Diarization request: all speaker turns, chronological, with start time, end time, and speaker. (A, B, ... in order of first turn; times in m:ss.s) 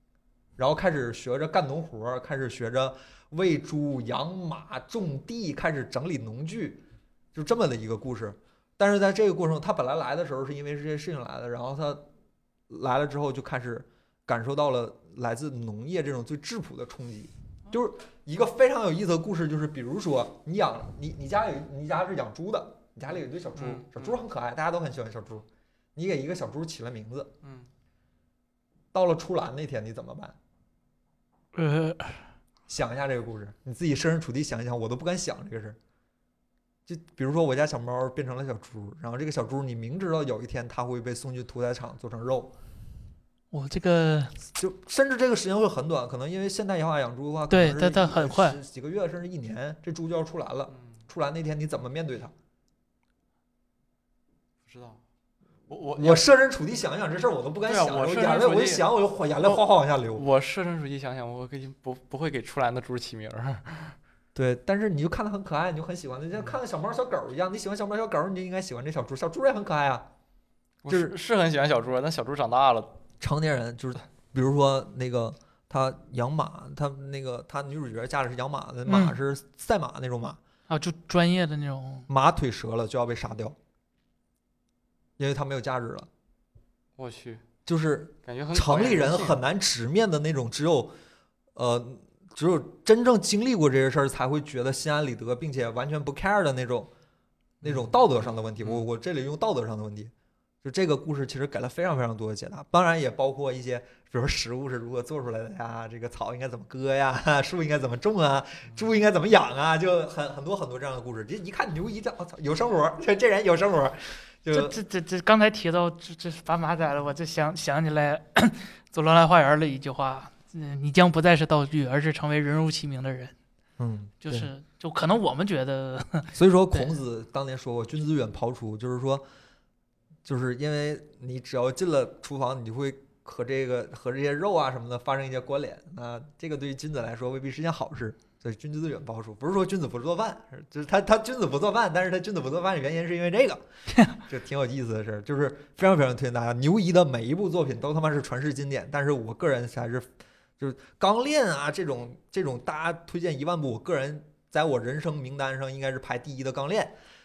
0:00.6-0:06.8 A
0:07.3-0:12.1 A
0:12.7-0:27.3 A
0:23.6-0:24.2 B
0:27.4-0:27.7 B
0:28.9-0:30.3 A
0:31.5-0:32.2 C
0:32.7-0:35.8 A
0:36.8-0:42.5 A
0:43.5-0:44.3 C
0:44.5-0:52.3 A
0:47.5-0:48.6 C
0:50.7-0:51.0 B
0:54.6-0:55.0 B
0:55.7-0:56.2 B
0:56.0-1:00.2 A
0:57.7-0:58.8 B
1:00.1-1:04.0 B
1:04.3-1:10.1 A
1:10.8-1:13.0 B
1:10.9-1:11.2 A
1:13.2-1:20.4 A
1:18.9-1:19.2 C
1:20.7-1:22.1 C
1:22.1-1:23.6 A
1:25.2-1:26.1 A
1:27.0-1:27.4 B
1:27.6-1:30.9 A
1:28.2-1:29.4 B
1:31.5-1:36.9 A
1:37.6-1:38.8 B
1:37.6-1:40.1 A
1:40.6-1:54.8 A
1:54.5-2:03.3 C
2:03.8-2:04.5 A
2:04.2-2:06.9 C
2:06.3-2:09.2 A
2:10.2-2:23.6 A
2:24.2-2:36.9 A